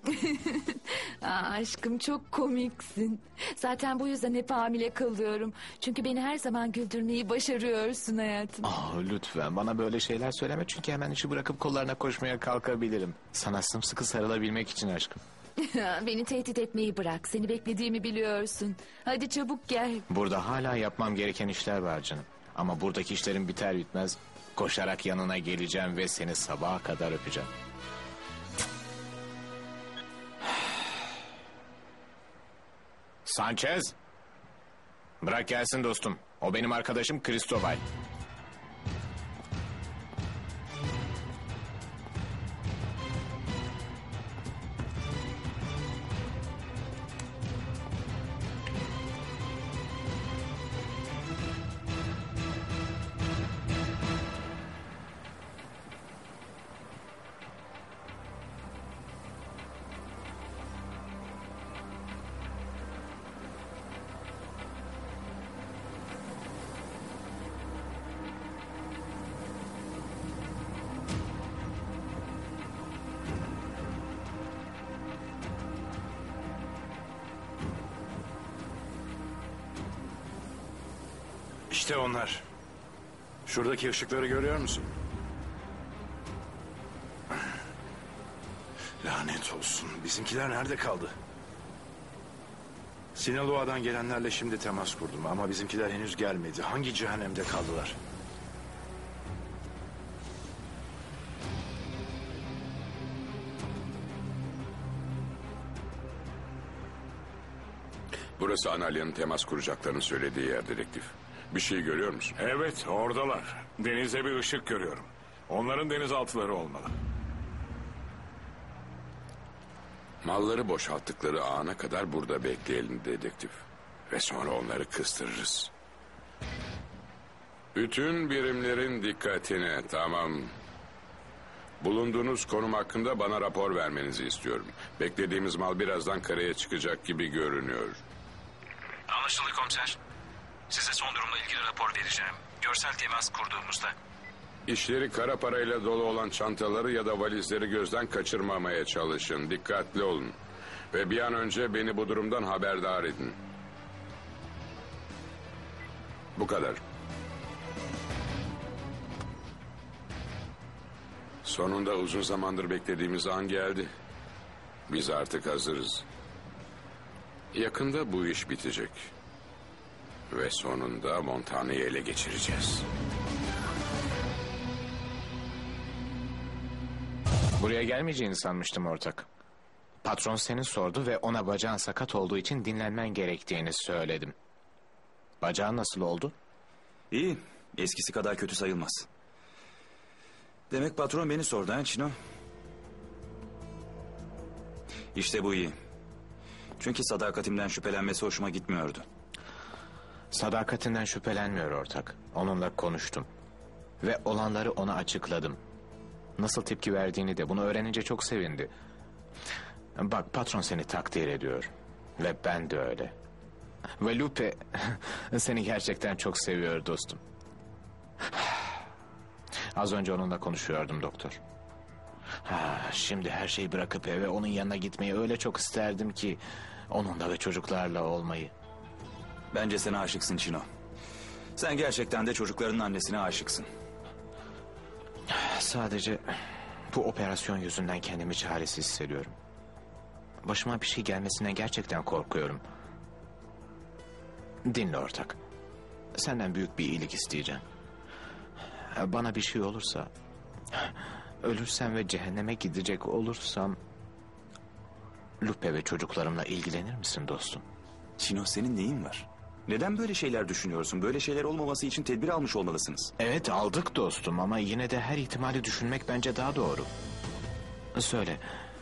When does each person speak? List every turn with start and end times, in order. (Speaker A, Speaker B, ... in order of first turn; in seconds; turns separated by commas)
Speaker A: 0.1-8.7, Speaker B: 8.6-15.2, Speaker A: 15.6-20.1, Speaker B: 20.1-27.5, Speaker B: 33.3-34.0, Speaker B: 35.2-37.8, Speaker C: 81.7-82.4, Speaker C: 83.5-84.9, Speaker C: 89.0-91.1, Speaker C: 93.2-98.0, Speaker D: 108.4-112.4, Speaker E: 112.4-117.0, Speaker D: 120.2-125.7, Speaker D: 127.8-130.5, Speaker D: 131.8-138.0, Speaker F: 139.1-140.0, Speaker F: 140.7-143.8, Speaker D: 144.7-150.3, Speaker D: 150.9-153.4, Speaker D: 156.4-156.8, Speaker D: 161.4-163.9, Speaker D: 164.9-166.0, Speaker D: 167.5-169.1, Speaker D: 170.3-172.9, Speaker B: 177.6-179.3, Speaker B: 180.0-184.3, Speaker B: 185.4-186.3, Speaker G: 187.1-189.1, Speaker G: 190.7-192.2, Speaker G: 195.1-195.8, Speaker G: 196.8-199.1, Speaker B: 200.3-203.3, Speaker B: 204.0-205.6, Speaker B: 206.4-208.7, Speaker B: 210.0-213.1, Speaker B: 214.0-217.2, Speaker B: 219.8-221.4, Speaker B: 222.4-228.5, Speaker G: 229.5-230.7, Speaker G: 231.6-233.7, Speaker B: 235.3-239.3, Speaker B: 240.4-242.6, Speaker B: 244.7-245.4, Speaker B: 246.2-247.6, Speaker B: 248.9-250.1, Speaker B: 250.7-253.8, Speaker B: 255.4-257.6, Speaker G: 258.2-263.1, Speaker B: 263.2-266.9, Speaker B: 267.9-268.5